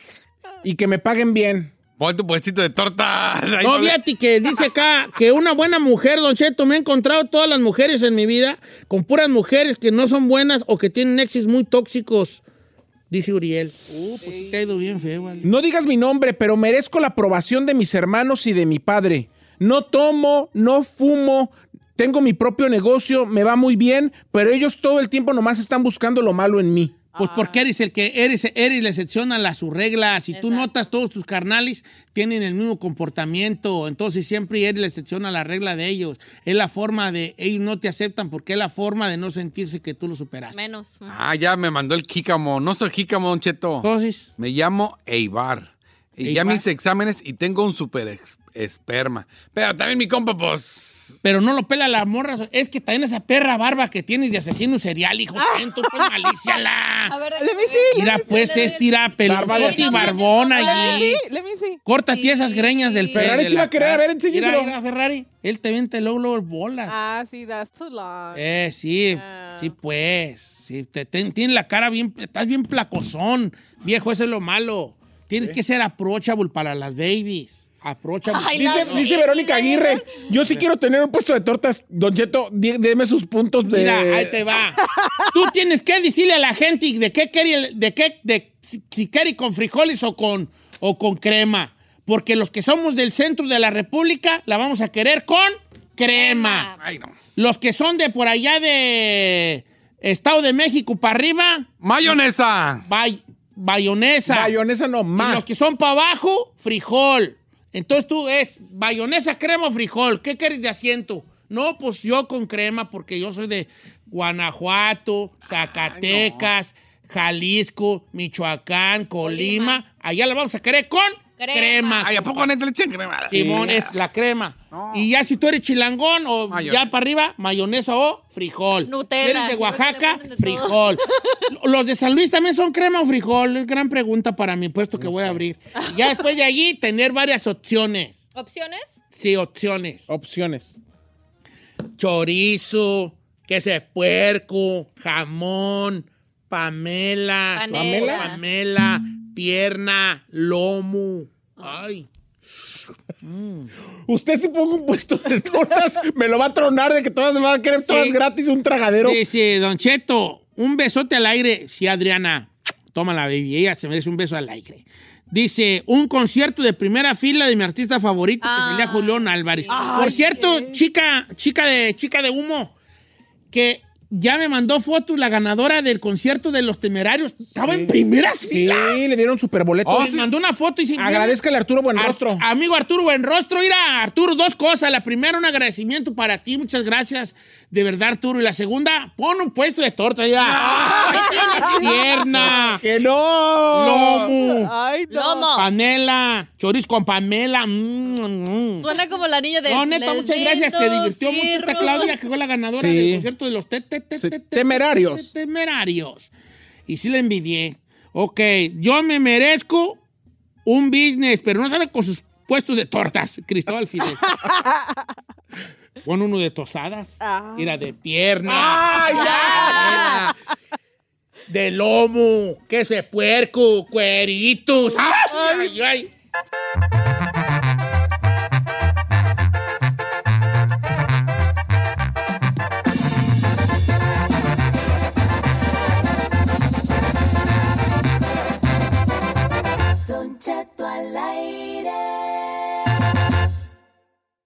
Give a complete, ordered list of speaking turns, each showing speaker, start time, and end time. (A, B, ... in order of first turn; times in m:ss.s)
0:00.6-0:01.7 A
0:02.0-0:04.0 B
0:03.6-0:12.4 C
0:13.1-0:15.5 C
0:14.2-0:14.5 D
0:15.4-0:27.0 A
0:27.2-0:27.6 D
0:27.2-0:40.6 C
0:30.3-0:30.7 E
0:40.5-0:41.2 E
0:41.0-0:51.2 B
0:43.8-0:44.3 C
0:46.2-0:46.6 C
0:51.2-0:57.2 C
0:55.3-0:56.6 D
0:57.1-0:59.0 E
0:57.4-0:58.8 D
0:57.9-1:01.2 C
0:59.2-1:00.1 A
0:59.5-1:01.1 E
0:59.5-1:01.8 D
1:01.8-1:07.0 C
1:02.1-1:03.3 E
1:03.1-1:04.7 A
1:06.8-1:08.4 D
1:08.3-1:19.1 C
1:09.1-1:09.7 D
1:18.3-1:20.2 E
1:18.5-1:24.3 A
1:23.7-1:24.8 C
1:24.8-1:25.3 D
1:25.3-1:36.7 C
1:36.1-1:36.8 E
1:36.8-1:37.2 B
1:37.3-1:41.7 C
1:41.8-1:42.8 B
1:42.9-1:44.5 C
1:44.3-1:45.4 A
1:45.2-2:02.2 C
1:55.6-1:56.5 B
1:59.2-1:59.8 E
2:01.4-2:02.3 E
2:02.0-2:03.9 B
2:03.3-2:18.2 C
2:03.3-2:03.7 A
2:04.7-2:05.1 B
2:06.5-2:06.9 B
2:08.8-2:11.4 E
2:15.0-2:15.4 A
2:18.3-2:19.0 E
2:19.1-2:20.1 C
2:20.1-2:20.8 A
2:22.0-2:32.1 C
2:27.5-2:28.4 E
2:27.7-2:28.3 A
2:33.2-2:33.7 C
2:34.1-2:39.2 A
2:37.8-2:38.2 C
2:39.0-2:52.7 C
2:48.4-2:50.3 E
2:49.7-2:50.8 D
2:53.5-2:59.0 C
2:57.6-2:57.9 A
2:58.5-3:00.2 A
2:59.8-3:00.2 B
2:59.9-3:01.4 C
3:01.0-3:02.4 A
3:01.9-3:10.7 C
3:10.4-3:11.5 A
3:11.1-3:12.1 E
3:11.7-3:12.8 C
3:12.3-3:14.3 A
3:13.7-3:14.7 C
3:14.4-3:15.5 D
3:15.1-3:15.7 E
3:15.5-3:18.8 C
3:18.8-3:22.2 E
3:19.7-3:26.3 C
3:22.7-3:23.3 A
3:24.2-3:25.3 A
3:26.9-3:30.0 C
3:30.6-3:34.2 C
3:34.2-3:34.9 D
3:36.0-3:40.3 C
3:37.2-3:37.8 D
3:38.5-3:39.9 A
3:39.1-3:40.2 E
3:39.4-3:39.9 D
3:41.5-3:46.1 C
3:45.3-3:45.8 D
4:00.1-4:02.2 F